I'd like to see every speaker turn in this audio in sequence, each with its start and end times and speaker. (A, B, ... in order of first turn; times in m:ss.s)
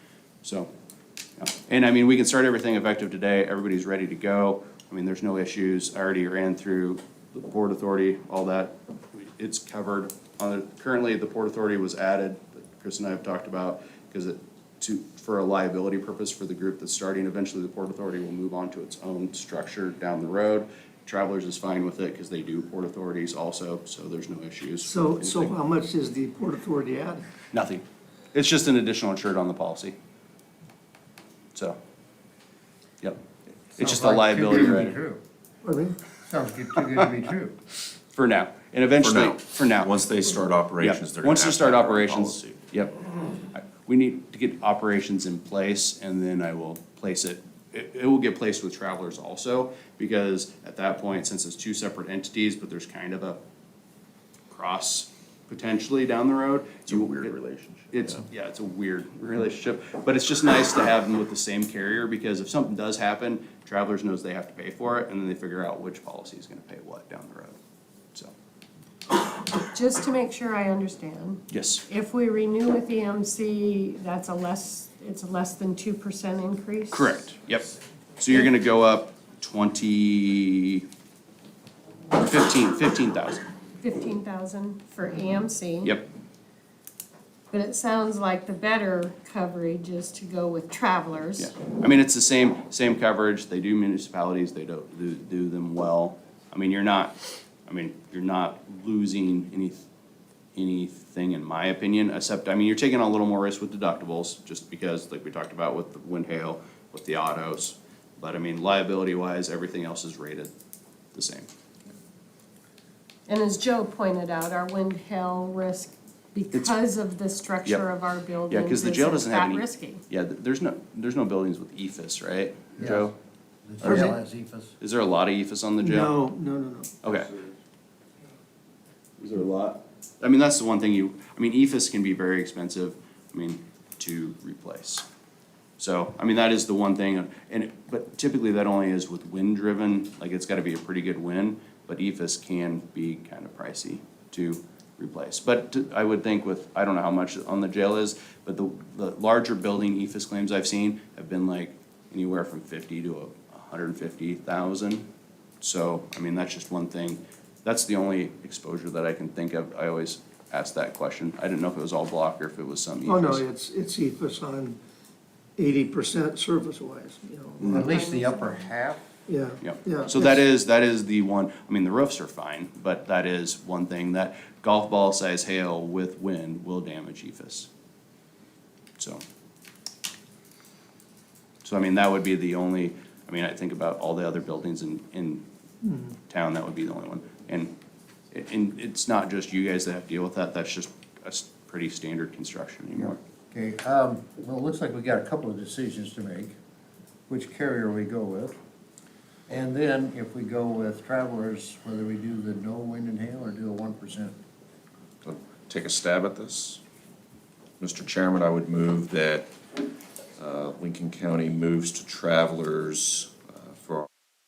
0:00.4-0:00.7 A
0:01.4-0:25.6 A
0:24.8-0:27.3 B
0:27.5-0:30.0 A
0:33.8-0:35.2 C
0:33.8-0:35.0 A
0:35.6-0:36.0 B
0:36.2-0:37.5 C
0:38.1-0:39.9 A
0:39.0-0:42.6 D
0:40.8-0:43.0 A
0:43.5-0:53.4 A
0:54.5-0:57.3 A
0:56.9-0:58.2 D
0:57.9-1:07.6 A
1:09.6-1:17.2 E
1:11.5-1:11.8 A
1:16.9-1:20.9 A
1:22.2-1:23.4 A
1:23.8-1:26.0 E
1:27.5-1:31.5 E
1:31.4-1:39.9 A
1:40.6-1:50.5 A
1:51.1-1:51.5 A
1:53.3-2:00.0 E
1:58.5-2:03.1 A
2:02.8-2:03.1 C
2:03.7-2:04.7 C
2:03.8-2:04.1 A
2:03.8-2:04.1 B
2:04.8-2:06.2 A
2:05.8-2:07.0 B
2:07.0-2:07.3 A
2:09.2-2:15.0 A
2:15.8-2:35.1 A
2:35.6-2:43.4 A
2:43.0-2:44.8 B
2:45.6-2:48.0 B
2:47.6-2:49.0 C
2:47.8-2:48.6 E
2:49.3-2:50.4 B
2:49.6-2:57.7 A
3:01.6-3:05.4 A
3:06.3-3:07.7 A
3:08.3-3:13.2 A
3:13.5-3:16.5 C
3:17.3-3:18.6 C
3:19.5-3:24.3 C
3:25.2-3:26.8 D
3:27.8-3:29.5 D
3:30.4-3:34.1 D